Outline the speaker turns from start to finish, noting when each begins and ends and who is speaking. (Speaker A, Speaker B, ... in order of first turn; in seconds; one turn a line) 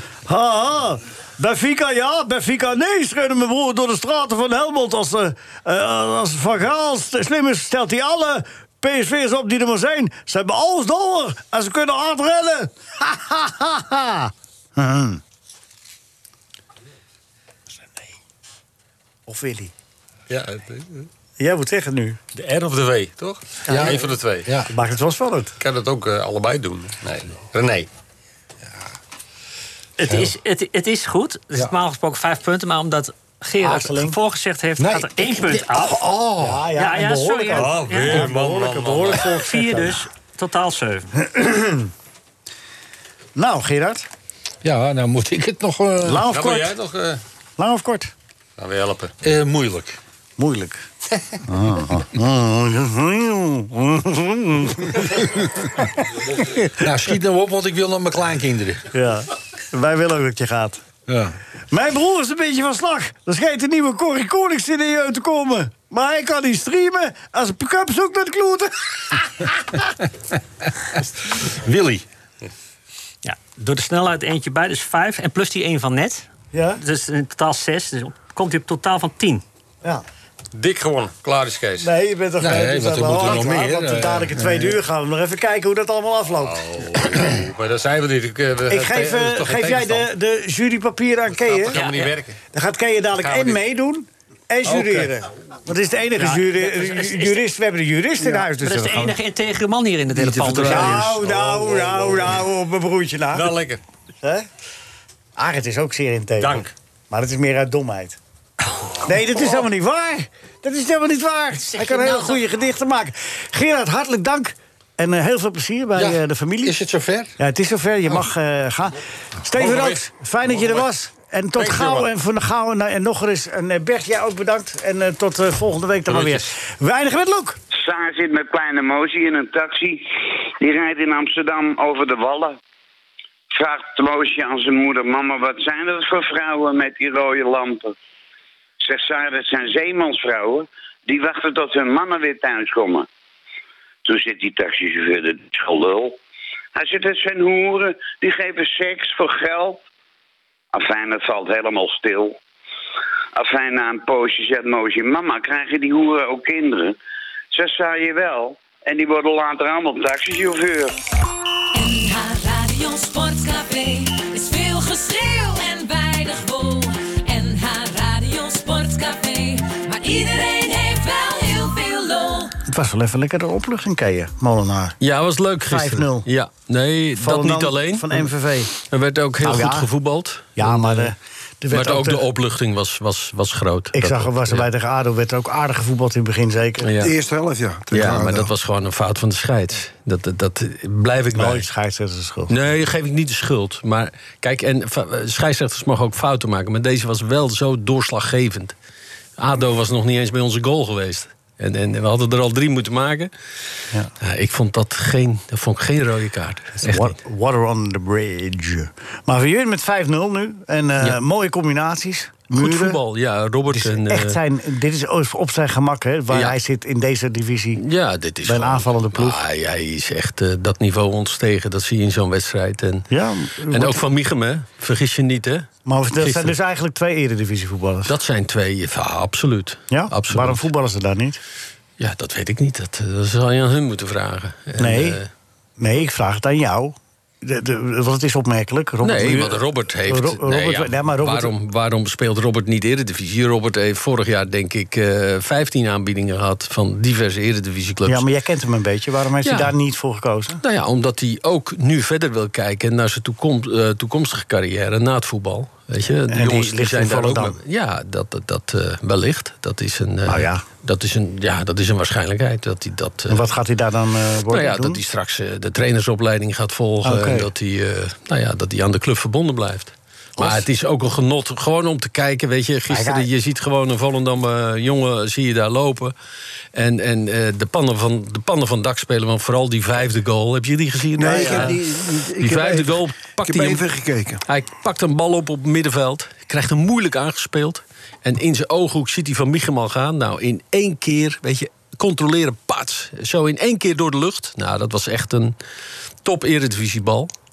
Speaker A: 0.2-15.2
Speaker A: 19.3-19.7
Speaker B: 20.3-21.1
Speaker A: 21.4-22.2
Speaker B: 22.3-24.5
Speaker A: 23.7-24.0
Speaker C: 23.7-24.7
Speaker A: 24.7-25.5
Speaker B: 25.6-27.9
Speaker D: 30.0-36.0
Speaker A: 33.6-34.1
Speaker C: 34.8-36.7
Speaker A: 36.4-40.0
Speaker D: 36.7-38.3
Speaker B: 37.5-39.4
Speaker D: 39.1-41.1
Speaker A: 41.1-41.9
Speaker A: 43.4-44.1
Speaker C: 44.6-46.2
Speaker A: 46.0-46.7
Speaker B: 46.2-47.2
Speaker A: 47.6-48.1
Speaker B: 48.6-49.1
Speaker C: 49.2-50.0
Speaker A: 50.4-50.8
Speaker A: 51.4-55.9
Speaker C: 56.7-58.8
Speaker A: 58.9-60.8
Speaker C: 61.1-61.4
Speaker A: 61.7-69.8
Speaker C: 71.5-72.0
Speaker D: 73.2-76.3
Speaker A: 76.5-76.8
Speaker D: 76.8-79.4
Speaker B: 80.5-81.9
Speaker A: 81.8-86.6
Speaker C: 82.4-84.6
Speaker B: 86.4-90.1
Speaker A: 88.7-91.8
Speaker B: 91.4-92.4
Speaker A: 92.5-99.1
Speaker B: 93.2-93.6
Speaker B: 94.7-95.1
Speaker D: 96.7-97.4
Speaker D: 98.6-101.2
Speaker A: 100.5-103.5
Speaker B: 100.6-102.4
Speaker B: 103.3-103.8
Speaker A: 105.4-108.2
Speaker B: 106.4-106.7
Speaker A: 109.0-116.8
Speaker D: 111.8-112.3
Speaker C: 115.9-117.3
Speaker A: 117.4-127.6
Speaker B: 119.5-120.0
Speaker B: 121.6-122.0
Speaker B: 126.1-126.5
Speaker E: 127.7-130.1
Speaker E: 130.6-132.6
Speaker E: 133.5-137.9
Speaker E: 138.8-143.1
Speaker E: 144.0-146.2
Speaker E: 146.7-149.8
Speaker E: 150.7-152.3
Speaker E: 153.3-156.9
Speaker E: 157.5-160.9
Speaker F: 161.7-172.5
Speaker A: 172.7-175.0
Speaker G: 175.0-178.3
Speaker A: 175.6-176.3
Speaker A: 177.2-178.7
Speaker G: 178.8-181.1
Speaker A: 179.4-179.9
Speaker A: 180.6-182.2
Speaker G: 181.7-184.7
Speaker A: 183.9-187.0
Speaker G: 186.8-187.1
Speaker H: 187.0-188.5
Speaker G: 187.9-191.7
Speaker A: 191.3-192.7
Speaker G: 192.5-198.7
Speaker G: 199.4-203.3
Speaker G: 204.2-207.2
Speaker A: 206.8-213.0
Speaker G: 212.5-214.4
Speaker A: 213.7-217.8
Speaker G: 216.3-216.6
Speaker G: 217.8-223.1
Speaker A: 218.4-219.4
Speaker A: 223.1-224.0
Speaker G: 223.7-226.5
Speaker A: 225.8-228.1
Speaker G: 228.1-230.7
Speaker A: 229.9-231.4
Speaker G: 232.0-235.3
Speaker A: 234.8-235.2
Speaker A: 235.8-241.5
Speaker G: 239.0-248.2
Speaker A: 248.1-250.6
Speaker G: 249.4-249.7
Speaker G: 250.6-263.5
Speaker A: 256.3-257.6
Speaker A: 260.2-260.6
Speaker A: 263.3-265.0
Speaker G: 264.5-276.1
Speaker A: 267.0-267.5
Speaker A: 270.4-270.7
Speaker A: 272.9-273.3
Speaker G: 276.7-281.8
Speaker H: 281.1-284.4
Speaker A: 281.2-281.8
Speaker G: 282.4-283.8
Speaker G: 284.4-295.5
Speaker G: 296.2-297.3